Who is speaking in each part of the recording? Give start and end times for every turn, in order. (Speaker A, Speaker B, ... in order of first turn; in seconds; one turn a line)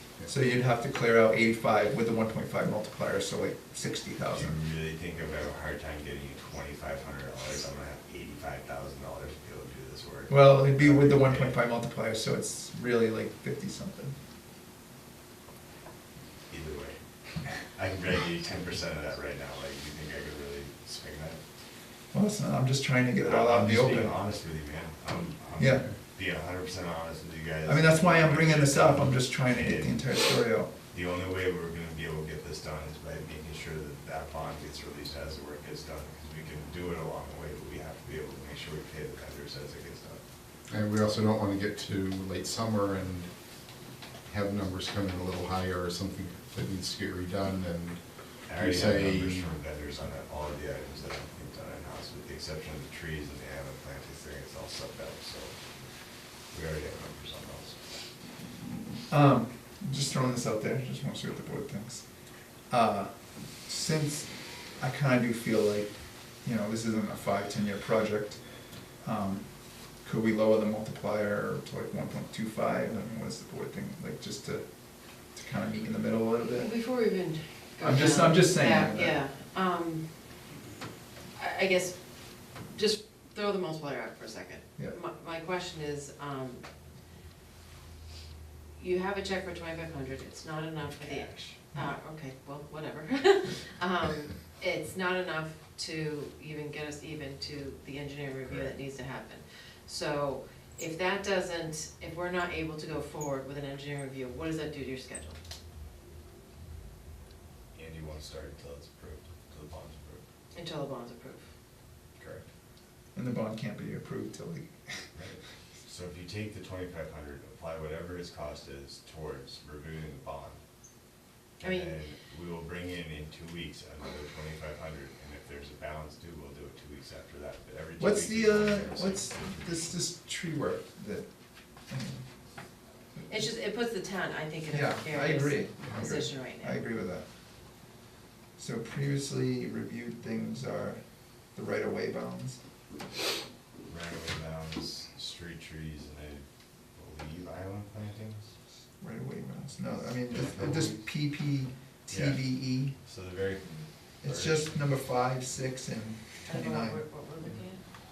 Speaker A: 0.3-4.6
Speaker B: 4.3-11.6
Speaker A: 10.3-14.1
Speaker B: 16.5-21.4
Speaker A: 22.1-24.1
Speaker B: 23.2-30.1
Speaker A: 25.6-25.8
Speaker A: 27.6-30.7
Speaker B: 30.9-40.2
Speaker C: 40.7-43.3
Speaker C: 44.2-49.5
Speaker B: 48.5-55.9
Speaker B: 56.5-57.8
Speaker A: 59.1-62.0
Speaker A: 62.7-74.7
Speaker A: 75.2-76.7
Speaker D: 76.5-80.0
Speaker A: 77.8-79.2
Speaker D: 81.3-82.0
Speaker D: 82.6-86.6
Speaker D: 88.8-105.4
Speaker B: 90.8-91.6
Speaker B: 98.4-98.8
Speaker B: 107.7-110.2
Speaker D: 110.5-111.4
Speaker B: 112.2-112.5
Speaker A: 113.1-115.1
Speaker B: 115.1-120.6
Speaker B: 121.6-129.9
Speaker D: 121.6-121.9
Speaker A: 128.0-131.3
Speaker A: 131.9-132.2
Speaker D: 133.3-136.8
Speaker A: 134.7-137.2
Speaker A: 138.6-141.0
Speaker A: 141.5-142.6
Speaker B: 143.8-146.4
Speaker B: 146.9-148.5
Speaker A: 149.0-152.9
Speaker B: 150.2-151.0
Speaker B: 152.1-152.4
Speaker B: 153.0-154.7
Speaker A: 154.2-157.0
Speaker D: 156.4-157.8